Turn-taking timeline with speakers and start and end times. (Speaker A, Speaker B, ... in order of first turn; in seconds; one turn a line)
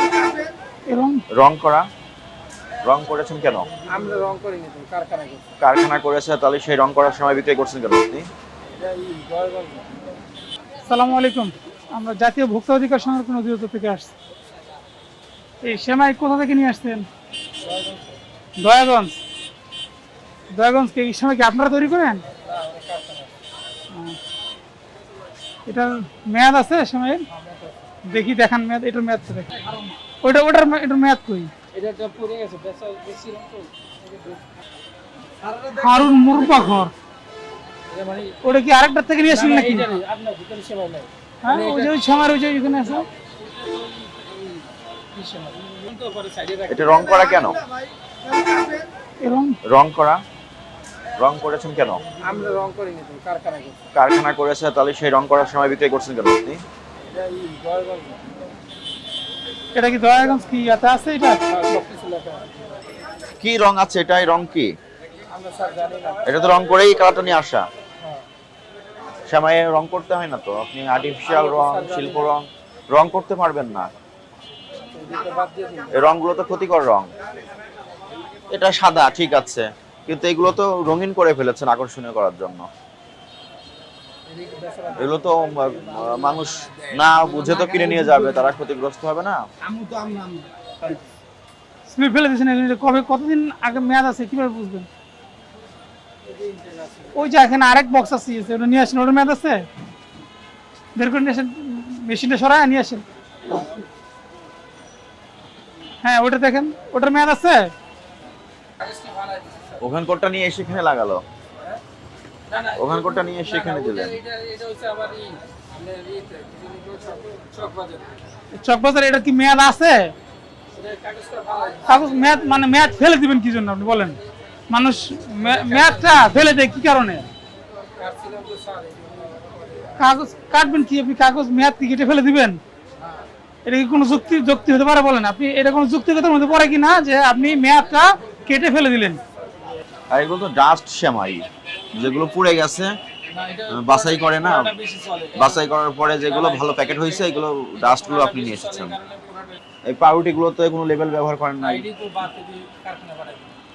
Speaker A: 0.8-1.2
Speaker B: 1.3-1.9
Speaker B: 2.8-3.7
Speaker C: 3.9-5.5
Speaker B: 5.6-8.3
Speaker C: 8.7-9.9
Speaker A: 10.8-14.1
Speaker A: 15.6-17.1
Speaker C: 17.6-18.2
Speaker A: 18.6-19.2
Speaker A: 20.5-22.2
Speaker C: 22.2-23.4
Speaker A: 23.9-24.2
Speaker A: 25.7-27.2
Speaker C: 27.3-27.9
Speaker A: 28.0-29.5
Speaker C: 29.5-30.0
Speaker A: 30.2-31.5
Speaker C: 31.7-34.5
Speaker A: 35.7-36.9
Speaker C: 37.9-38.4
Speaker A: 38.4-39.9
Speaker C: 39.2-41.9
Speaker A: 41.4-43.0
Speaker C: 43.4-47.2
Speaker B: 46.7-47.6
Speaker A: 49.2-49.6
Speaker B: 49.6-50.2
Speaker B: 51.2-52.0
Speaker C: 52.2-53.8
Speaker B: 53.9-56.6
Speaker C: 57.1-58.2
Speaker A: 59.7-61.4
Speaker C: 61.5-62.8
Speaker B: 63.4-64.7
Speaker C: 65.3-66.2
Speaker B: 66.2-67.6
Speaker C: 68.0-68.2
Speaker B: 69.3-73.9
Speaker C: 71.0-72.3
Speaker C: 74.9-76.0
Speaker B: 75.9-77.1
Speaker B: 78.5-82.7
Speaker C: 84.3-88.5
Speaker B: 85.0-89.4
Speaker A: 87.7-88.3
Speaker C: 89.7-91.0
Speaker A: 91.9-94.9
Speaker C: 96.2-97.3
Speaker A: 97.1-99.7
Speaker A: 101.0-103.0
Speaker A: 106.0-107.7
Speaker C: 108.8-109.8
Speaker B: 109.8-111.2
Speaker C: 112.5-118.2
Speaker B: 112.8-114.2
Speaker A: 118.5-120.1
Speaker C: 120.7-122.5
Speaker A: 121.9-124.2
Speaker A: 124.7-127.3
Speaker C: 125.4-126.4
Speaker C: 128.0-129.9
Speaker A: 130.0-132.6
Speaker A: 133.7-139.2
Speaker B: 140.1-142.9
Speaker C: 143.3-149.6
Speaker B: 143.7-144.7
Speaker B: 145.3-148.9
Speaker B: 149.8-151.8
Speaker C: 151.6-153.6